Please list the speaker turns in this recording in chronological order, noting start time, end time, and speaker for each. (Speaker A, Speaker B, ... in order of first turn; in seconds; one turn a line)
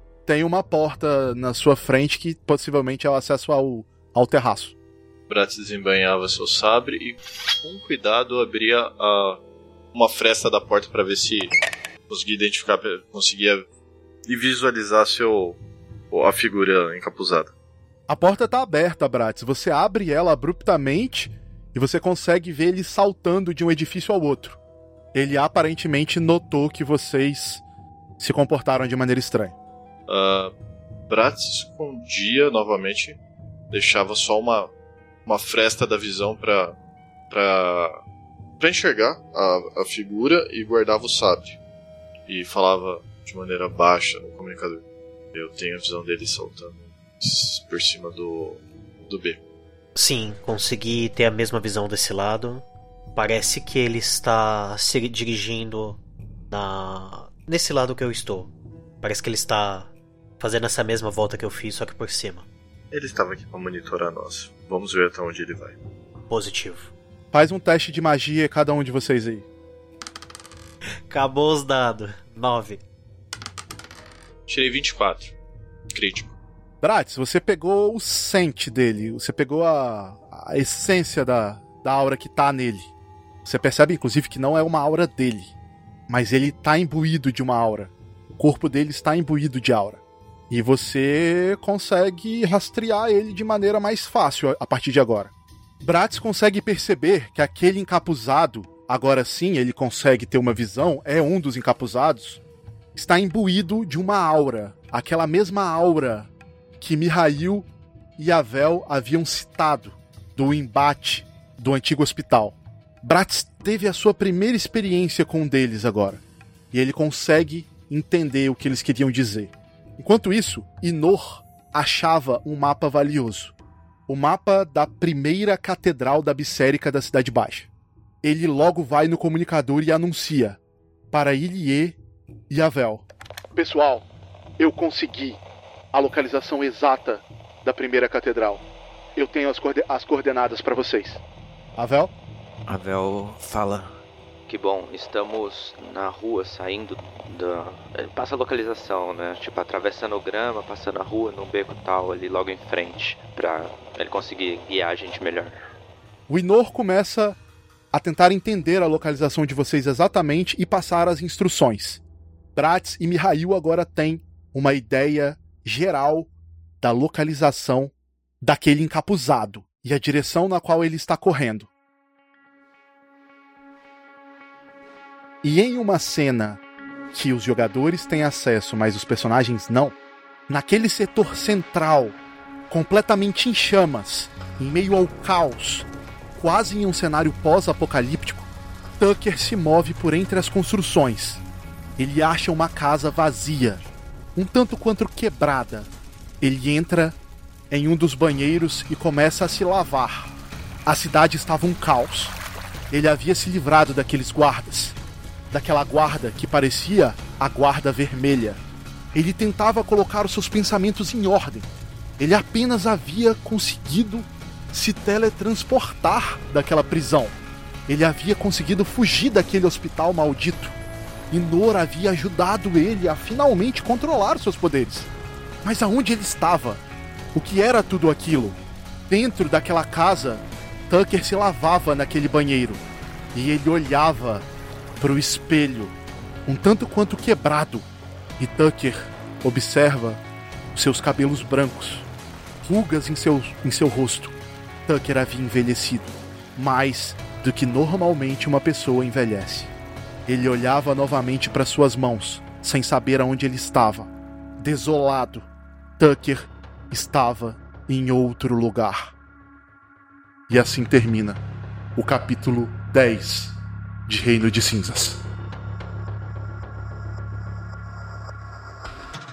Speaker A: 0.2-4.7
Speaker B: 5.3-9.4
Speaker B: 9.9-11.5
Speaker B: 12.1-13.7
Speaker B: 14.2-15.6
Speaker B: 16.1-17.5
Speaker A: 18.1-24.6
Speaker A: 25.1-27.6
Speaker A: 28.2-29.6
Speaker B: 30.1-30.5
Speaker B: 31.1-33.2
Speaker B: 33.7-34.7
Speaker B: 35.2-36.8
Speaker B: 37.3-38.0
Speaker B: 38.6-41.6
Speaker B: 42.3-49.4
Speaker C: 49.9-62.5
Speaker B: 62.9-65.8
Speaker C: 66.3-66.9
Speaker A: 67.3-69.5
Speaker C: 71.1-72.8
Speaker B: 74.5-75.4
Speaker B: 75.9-76.3
Speaker A: 76.8-82.9
Speaker A: 83.4-85.5
Speaker A: 86.1-102.4
Speaker A: 102.9-107.7
Speaker A: 108.2-123.5
Speaker A: 124.1-127.7
Speaker A: 128.2-130.6
Speaker A: 131.1-132.0
Speaker A: 132.5-134.1
Speaker A: 134.6-135.4
Speaker A: 135.9-138.6
Speaker A: 139.2-141.2
Speaker A: 141.8-142.1
Speaker D: 142.7-155.6
Speaker A: 156.3-157.4
Speaker A: 157.9-162.0
Speaker A: 162.6-166.3
Speaker A: 166.8-171.7
Speaker A: 175.4-176.6
Speaker A: 177.1-179.9
Speaker A: 180.5-182.2
Speaker A: 182.7-191.4
Speaker A: 192.0-195.9
Speaker A: 196.4-197.2
Speaker A: 197.7-200.3
Speaker A: 200.8-202.3
Speaker A: 202.9-205.0
Speaker A: 205.5-208.6
Speaker A: 209.1-211.7
Speaker A: 212.2-220.7
Speaker A: 221.3-225.1
Speaker A: 225.6-226.8
Speaker A: 227.3-232.8
Speaker A: 233.3-234.4
Speaker A: 235.0-235.9
Speaker A: 236.4-237.8
Speaker A: 238.4-240.2
Speaker A: 240.7-242.1
Speaker A: 242.6-249.7
Speaker A: 250.3-255.5
Speaker A: 256.0-259.1
Speaker A: 260.5-261.4
Speaker A: 261.9-265.2